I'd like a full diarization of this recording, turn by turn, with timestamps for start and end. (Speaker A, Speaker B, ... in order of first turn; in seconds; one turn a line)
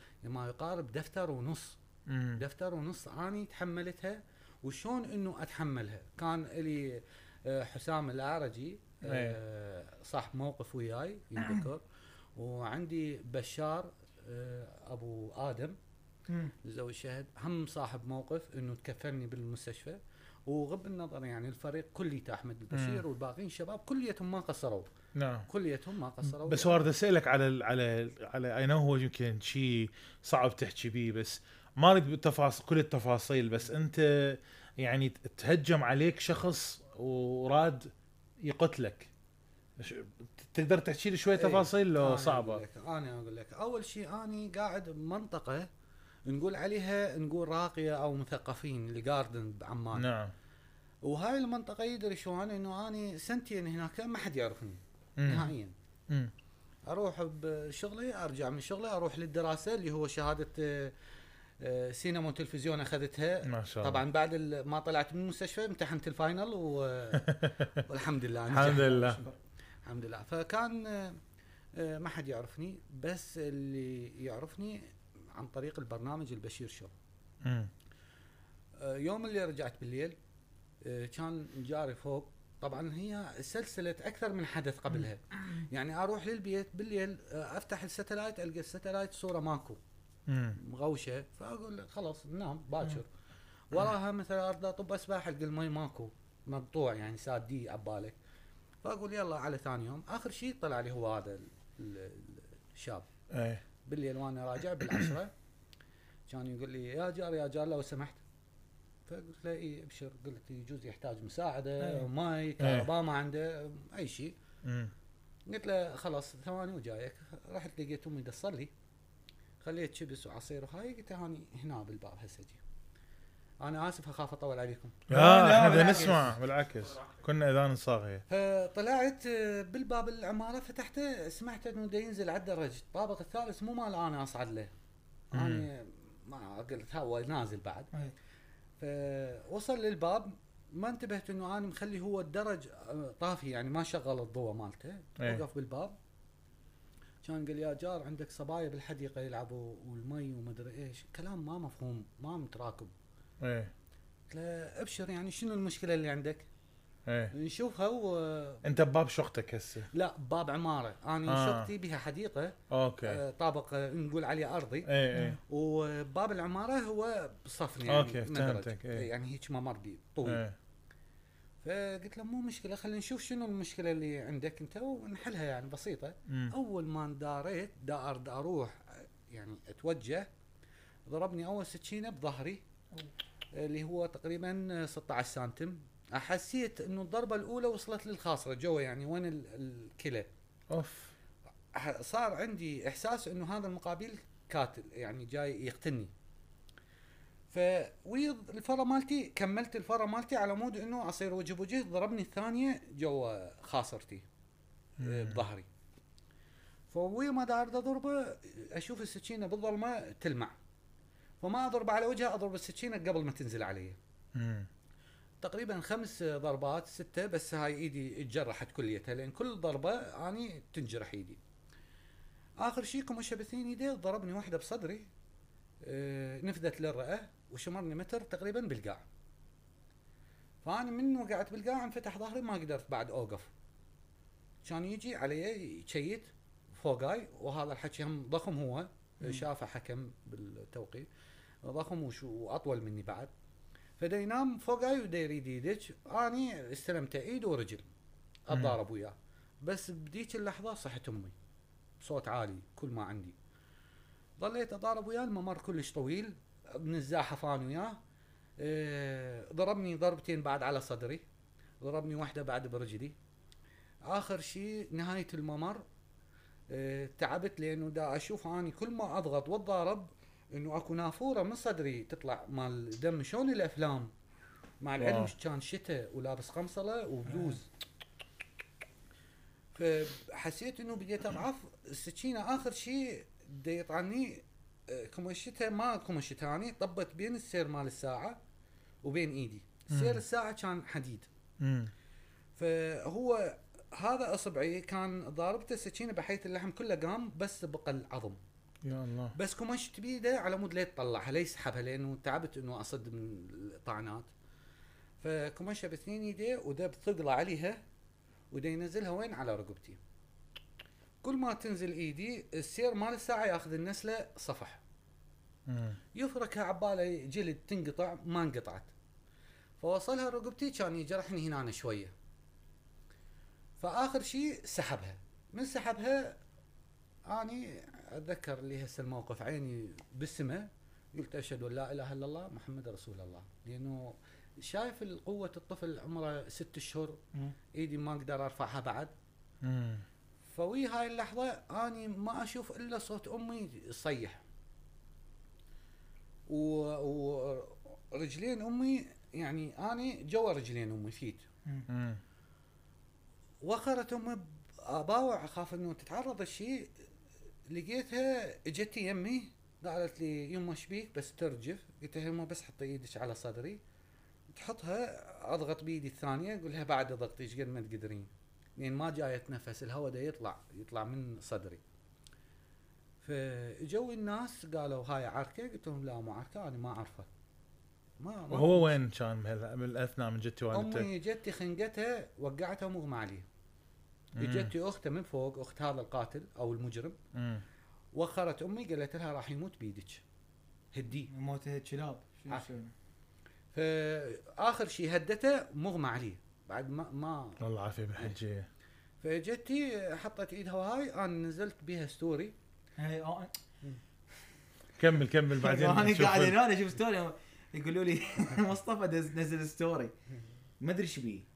Speaker A: 0.2-1.8
Speaker B: 2.1-2.4
Speaker A: 2.4-11.8
Speaker B: 9.0-9.4
Speaker C: 11.4-11.7
Speaker A: 12.3-15.8
Speaker C: 16.3-16.5
Speaker A: 16.6-24.9
Speaker B: 22.7-23.0
Speaker B: 25.1-25.5
Speaker A: 25.5-26.9
Speaker B: 26.2-39.1
Speaker B: 39.8-42.6
Speaker A: 41.3-45.7
Speaker A: 46.2-50.1
Speaker B: 49.9-50.3
Speaker A: 51.0-55.7
Speaker B: 55.2-55.5
Speaker A: 56.9-60.9
Speaker A: 61.6-69.1
Speaker B: 63.5-64.0
Speaker B: 67.2-67.7
Speaker B: 68.5-69.2
Speaker C: 68.5-69.4
Speaker A: 69.8-71.2
Speaker A: 71.8-76.9
Speaker B: 77.4-77.7
Speaker A: 78.8-80.2
Speaker A: 80.8-89.8
Speaker B: 90.3-90.6
Speaker A: 90.6-93.1
Speaker A: 93.7-98.2
Speaker A: 98.8-103.1
Speaker B: 103.3-103.6
Speaker A: 103.8-105.3
Speaker A: 106.3-108.2
Speaker A: 109.1-114.3
Speaker C: 111.8-112.1
Speaker B: 112.6-112.9
Speaker B: 114.6-114.9
Speaker A: 115.5-118.7
Speaker A: 119.6-122.6
Speaker A: 123.6-126.2
Speaker B: 125.1-128.2
Speaker C: 125.1-126.3
Speaker A: 128.3-134.7
Speaker A: 135.3-137.9
Speaker B: 135.3-135.7
Speaker A: 138.8-145.9
Speaker B: 145.2-145.4
Speaker A: 147.2-152.9
Speaker B: 153.4-153.7
Speaker A: 154.3-156.5
Speaker B: 157.1-157.3
Speaker A: 157.3-158.6
Speaker B: 158.6-159.9
Speaker A: 159.9-164.9
Speaker B: 161.3-161.7
Speaker B: 162.7-163.2
Speaker B: 164.9-165.4
Speaker C: 165.1-165.4
Speaker A: 165.5-170.4
Speaker B: 167.9-169.1
Speaker B: 170.2-170.6
Speaker A: 171.6-180.3
Speaker B: 176.3-176.5
Speaker A: 181.1-182.6
Speaker A: 183.5-190.3
Speaker B: 190.7-191.1
Speaker A: 191.7-196.1
Speaker A: 197.5-204.2
Speaker B: 205.0-205.4
Speaker A: 205.0-205.7
Speaker A: 206.9-210.6
Speaker A: 211.4-214.0
Speaker B: 214.3-214.7
Speaker A: 215.4-221.4
Speaker A: 222.6-225.1
Speaker A: 225.8-229.0
Speaker A: 230.6-233.5
Speaker A: 234.6-241.1
Speaker A: 241.6-243.3
Speaker A: 244.0-247.8
Speaker A: 248.5-251.3
Speaker B: 248.5-248.8
Speaker A: 252.0-253.3
Speaker A: 254.4-258.0
Speaker A: 258.6-261.2
Speaker A: 261.8-263.1
Speaker A: 264.1-265.8
Speaker A: 266.7-274.1
Speaker A: 274.8-277.7
Speaker B: 275.0-275.3
Speaker C: 277.3-277.6
Speaker A: 279.7-288.4
Speaker A: 289.0-291.3
Speaker B: 289.9-290.2
Speaker B: 291.6-291.9
Speaker A: 292.6-298.4
Speaker B: 298.8-299.4
Speaker A: 299.4-304.3
Speaker A: 305.2-307.8
Speaker A: 308.5-310.0
Speaker A: 311.2-314.8
Speaker B: 315.7-316.0
Speaker A: 316.1-318.9
Speaker A: 319.8-322.1
Speaker A: 323.8-326.4
Speaker A: 327.3-337.2
Speaker A: 337.7-339.1
Speaker B: 339.6-340.0
Speaker A: 340.5-344.4
Speaker A: 346.5-351.4
Speaker B: 351.9-352.2
Speaker A: 353.6-356.9
Speaker A: 357.7-363.8
Speaker A: 364.5-371.8
Speaker A: 373.2-377.3
Speaker A: 378.2-378.9
Speaker B: 378.5-381.1
Speaker A: 380.7-383.4
Speaker B: 384.4-384.7
Speaker A: 384.4-387.1
Speaker B: 387.3-387.6
Speaker A: 388.1-390.2
Speaker A: 390.9-391.3
Speaker C: 391.3-392.9
Speaker A: 393.7-397.6
Speaker B: 397.6-398.7
Speaker A: 399.2-402.5
Speaker C: 403.0-403.5
Speaker B: 405.0-406.6
Speaker C: 405.5-410.1
Speaker C: 410.8-411.4